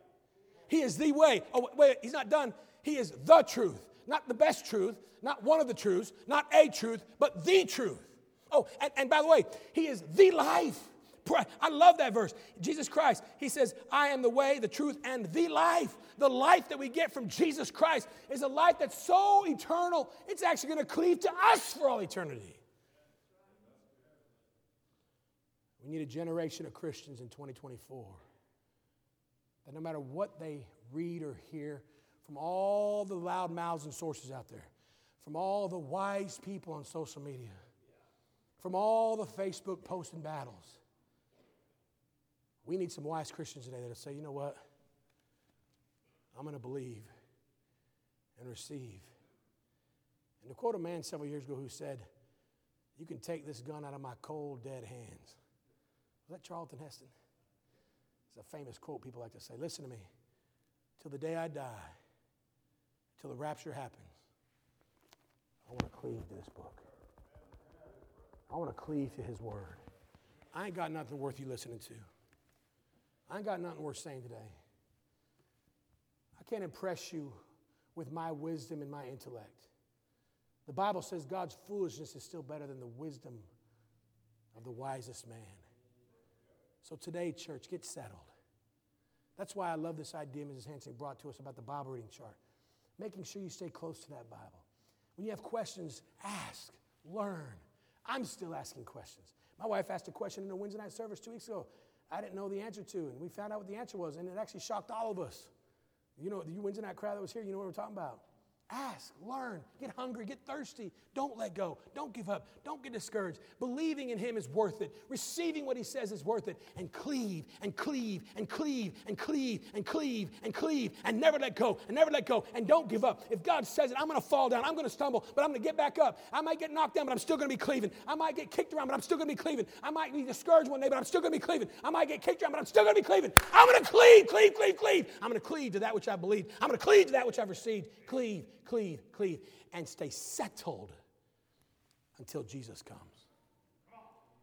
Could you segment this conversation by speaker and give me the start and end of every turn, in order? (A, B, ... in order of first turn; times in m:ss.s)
0:00.7-0:22.6 A
0:25.8-0:28.2 A
0:29.6-0:37.6 A
0:38.6-0:40.8 A
0:42.6-0:44.6 A
0:46.3-0:47.1 A
0:48.4-0:49.1 A
0:50.4-0:52.1 A
0:53.0-0:55.4 A
0:56.3-0:57.1 A
0:58.3-1:00.1 A
1:01.0-1:01.9 A
1:03.2-1:04.1 A
1:05.7-1:06.8 A
1:08.5-1:09.8 A
1:10.5-1:12.0 A
1:13.3-1:14.5 A
1:16.4-1:17.4 A
1:17.9-1:19.7 A
1:20.6-1:23.5 A
1:24.5-1:25.6 A
1:26.8-1:28.3 A
1:29.4-1:32.4 A
1:33.0-1:34.6 A
1:35.2-1:45.5 A
1:46.2-2:21.0 A
2:22.2-2:23.2 A